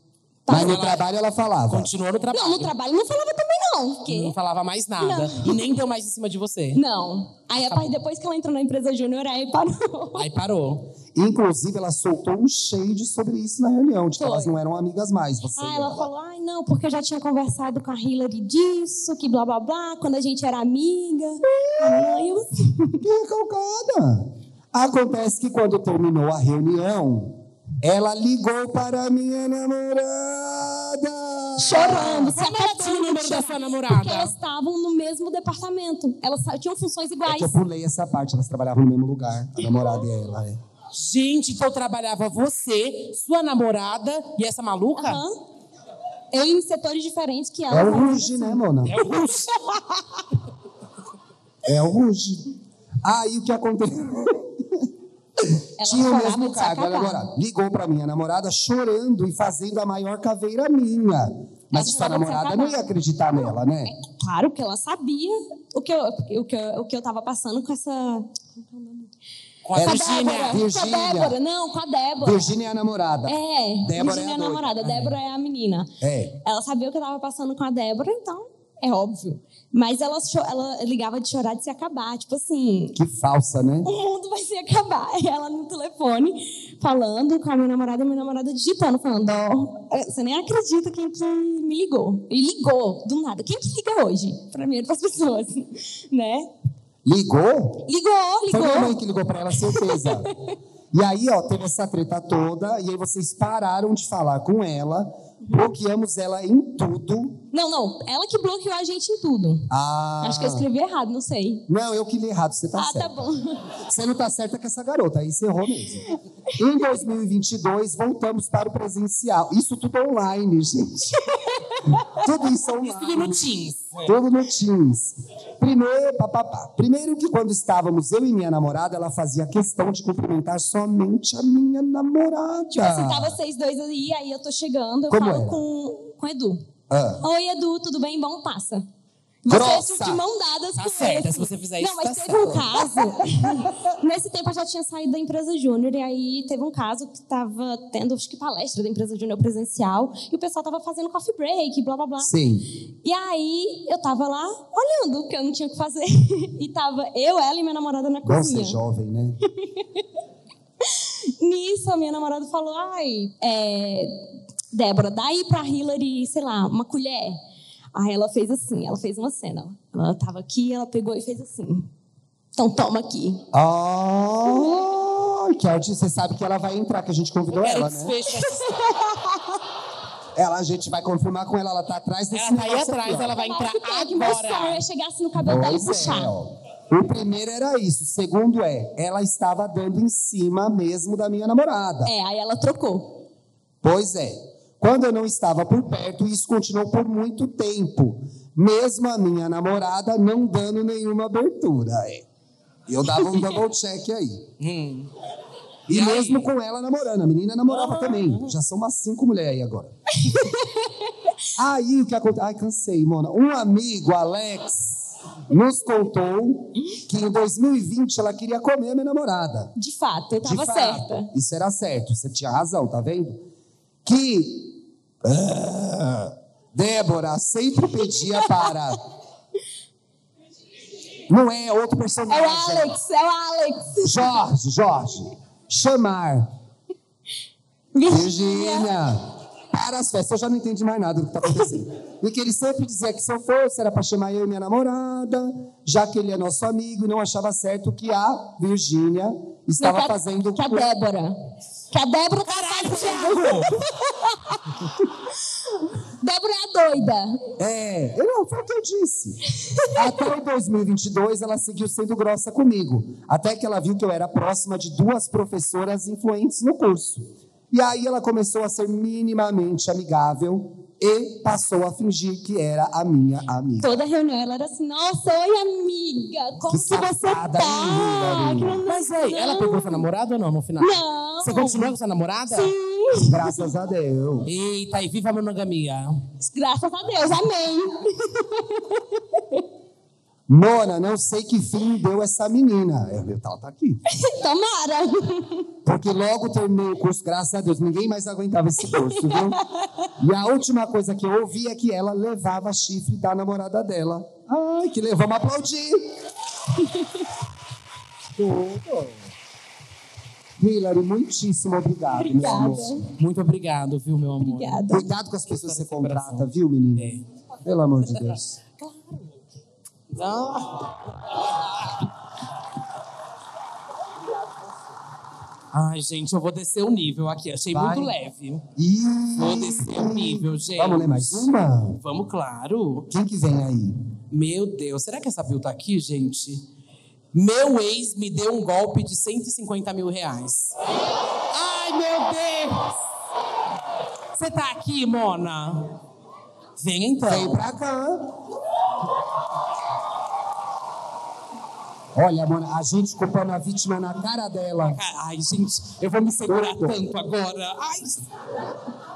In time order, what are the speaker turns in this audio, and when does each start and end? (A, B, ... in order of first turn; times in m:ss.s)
0:00.4-0:00.8 A
0:00.5-0:01.9 B
0:00.5-0:01.0 C
0:01.7-0:02.7 C
0:02.3-0:04.3 A
0:04.1-0:06.8 C
0:05.0-0:05.7 A
0:06.7-0:10.3 A
0:07.6-0:07.9 C
0:10.1-0:10.9 C
0:11.1-0:16.1 B
0:14.2-0:14.6 A
0:15.6-0:23.0 A
0:21.5-0:22.2 B
0:23.0-0:32.3 B
0:31.6-0:37.5 A
0:31.8-0:34.3 C
0:37.2-0:40.6 B
0:40.9-0:45.2 C
0:45.0-0:45.3 A
0:46.3-0:48.6 A
0:47.7-0:49.0 B
0:48.9-0:50.0 C
0:51.6-0:52.5 B
0:53.0-0:54.9 B
0:55.4-1:03.9 B
0:55.8-0:57.2 A
1:01.7-1:09.1 A
1:09.6-1:10.6 C
1:09.7-1:12.5 A
1:09.7-1:11.4 B
1:12.2-1:14.7 B
1:13.2-1:15.9 A
1:14.8-1:15.2 C
1:16.0-1:16.4 B
1:16.4-1:23.0 A
1:22.9-1:23.9 B
1:23.8-1:36.5 A
1:37.0-1:37.9 B
1:37.9-1:39.0 A
1:38.5-1:40.3 B
1:39.6-1:40.5 A
1:40.9-1:47.4 B
1:47.5-1:49.7 A
1:49.7-1:50.6 B
1:50.2-1:51.6 A
1:51.7-1:53.2 B
1:52.8-1:53.7 A
1:53.8-2:01.2 B
2:01.3-2:02.0 A
2:02.0-2:03.5 B
2:02.8-2:04.1 C
2:04.0-2:13.4 B
2:12.7-2:16.6 A
2:15.1-2:15.6 B
2:16.9-2:17.2 B
2:17.2-2:18.9 A
2:19.4-2:32.3 A
2:19.4-2:20.2 B
2:20.7-2:22.8 C
2:32.2-2:32.7 B
2:33.0-2:38.8 A
2:38.2-2:39.4 B
2:39.5-2:40.0 A
2:40.8-2:47.4 A
2:47.9-2:51.9 A
2:52.5-2:53.4 A
2:53.5-2:58.1 B
2:54.5-2:54.8 A
2:57.5-2:58.8 C
2:58.5-2:59.4 A
3:00.3-3:03.3 B
3:02.3-3:04.8 C
3:03.3-3:06.4 A
3:05.4-3:12.1 B
3:12.0-3:13.2 A
3:13.8-3:22.2 B
3:22.9-3:24.5 B
3:24.6-3:25.1 C
3:25.9-3:29.9 B
3:25.9-3:26.5 C
3:27.7-3:28.5 C
3:30.2-3:31.3 A
3:31.6-3:39.7 B
3:39.8-3:41.3 A
3:40.4-3:43.4 B
3:44.0-3:49.0 B
3:51.3-3:52.9 B
3:52.3-3:54.3 A
3:54.0-3:56.5 B
3:57.9-3:58.9 A
3:58.0-4:10.9 B
4:09.8-4:11.4 A
4:11.9-4:14.6 A
4:12.4-4:13.8 C
4:16.2-4:17.4 A
4:17.6-4:19.4 B
4:19.6-4:20.0 A
4:19.9-4:33.9 B
4:33.8-4:40.0 A
4:36.7-4:38.8 B
4:38.9-4:42.7 C
4:40.8-4:41.9 A
4:42.5-4:43.7 A
4:43.2-4:44.5 B
4:44.4-4:46.2 C
4:46.4-4:49.6 A
4:50.5-4:54.0 B
4:54.1-4:55.7 A
4:55.8-4:59.6 B
4:58.8-5:00.1 A
5:00.2-5:06.2 B
5:06.8-5:07.2 A
5:08.4-5:09.2 B
5:10.6-5:13.0 B
5:12.2-5:13.1 A
5:13.2-5:14.8 C
5:14.4-5:15.1 A
5:14.9-5:18.6 B
5:15.4-5:17.2 C
5:20.1-5:21.0 C
5:25.7-5:28.6 C
5:27.7-5:28.1 B
5:28.8-5:32.0 B
5:29.4-5:33.1 C
5:33.1-5:34.0 B
5:34.3-5:36.6 C
5:37.3-5:40.8 C
5:41.5-5:43.0 C
5:44.3-5:46.0 C
5:46.8-5:47.6 C
5:47.3-5:48.3 B
5:52.1-5:55.0 B
5:54.8-5:58.2 C
5:56.1-5:57.1 B